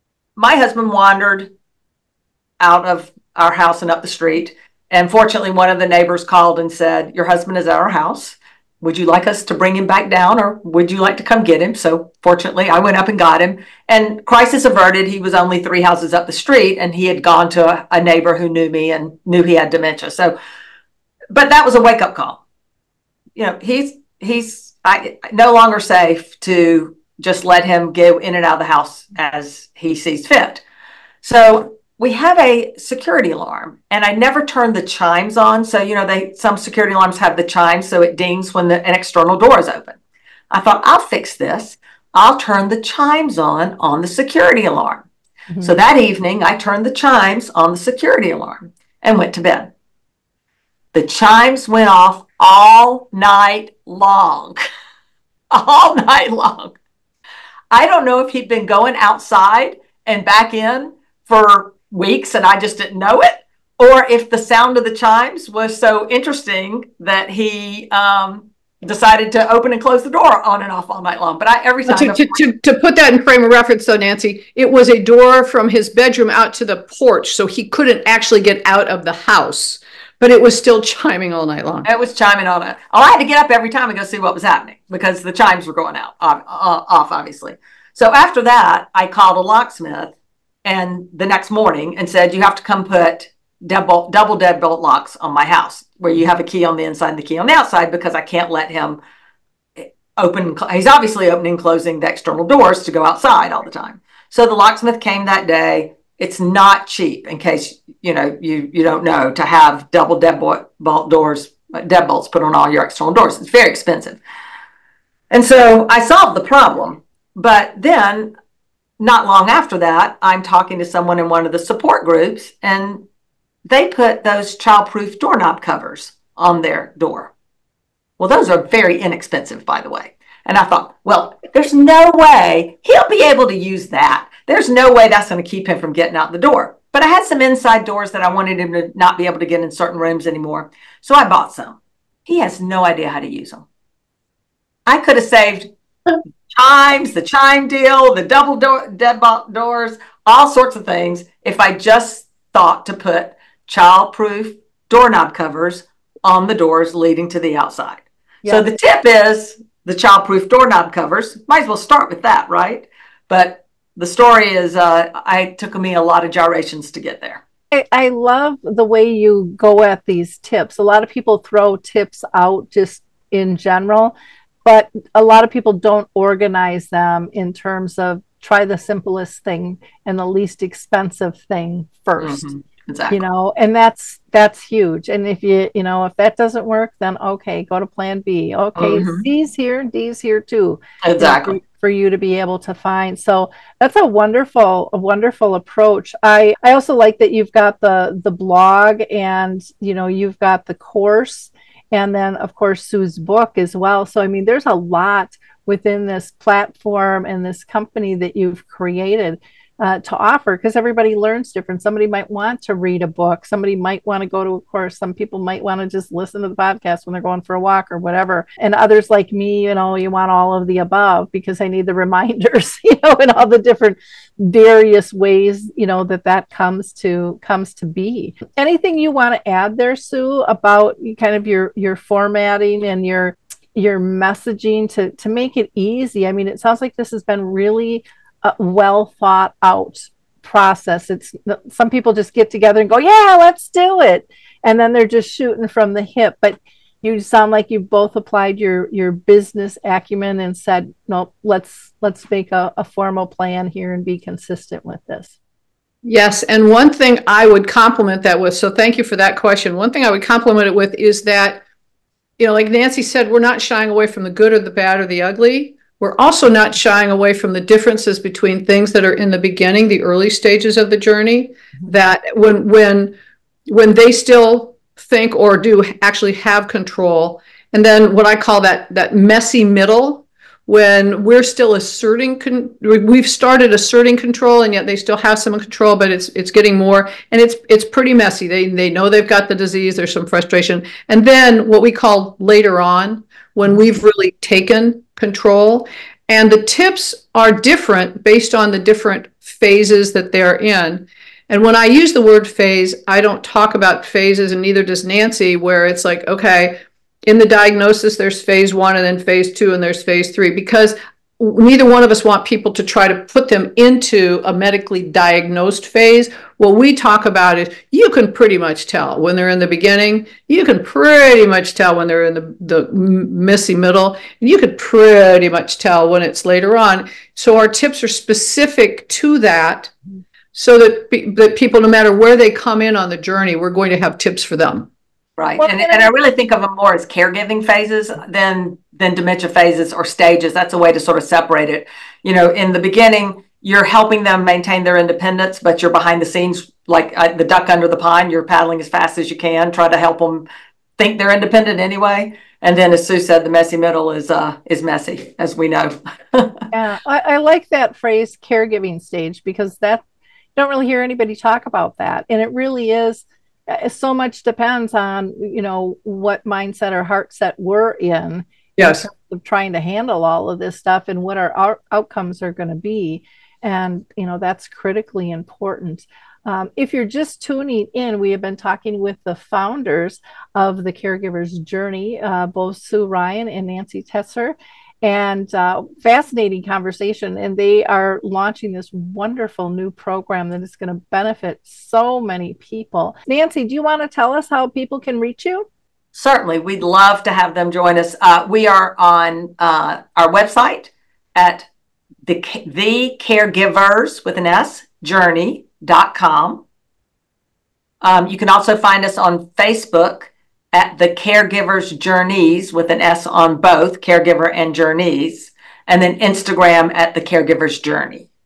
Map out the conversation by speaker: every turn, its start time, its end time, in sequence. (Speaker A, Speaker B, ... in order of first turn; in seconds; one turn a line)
Speaker A: 0.3-1.5
Speaker A: 2.6-20.4
Speaker A: 21.3-22.4
Speaker A: 23.4-30.6
Speaker A: 31.2-40.0
Speaker A: 40.5-45.1
Speaker B: 45.5-45.8
Speaker A: 45.6-49.7
Speaker A: 50.9-54.6
Speaker A: 55.5-56.8
Speaker A: 57.7-72.4
Speaker C: 71.8-81.9
Speaker A: 81.8-90.1
Speaker A: 90.6-99.0
Speaker A: 99.8-114.2
Speaker A: 115.3-118.3
Speaker A: 119.0-123.0
Speaker A: 123.7-127.3
Speaker A: 128.2-143.7
Speaker A: 144.9-145.7
Speaker A: 146.5-167.4
Speaker B: 167.7-174.1
Speaker B: 174.6-182.5
Speaker A: 182.2-183.2
Speaker B: 183.1-255.3
Speaker A: 188.8-189.2
Speaker A: 191.0-191.6
Speaker C: 256.0-261.6
Speaker C: 262.4-273.1
Speaker C: 273.7-329.9
Speaker C: 330.5-334.9
Speaker A: 335.4-350.4
Speaker B: 335.6-336.1
Speaker A: 351.0-356.6
Speaker B: 356.7-360.0
Speaker B: 360.6-395.6
Speaker C: 368.8-369.0
Speaker A: 396.1-401.7
Speaker A: 402.2-406.6
Speaker A: 408.0-418.2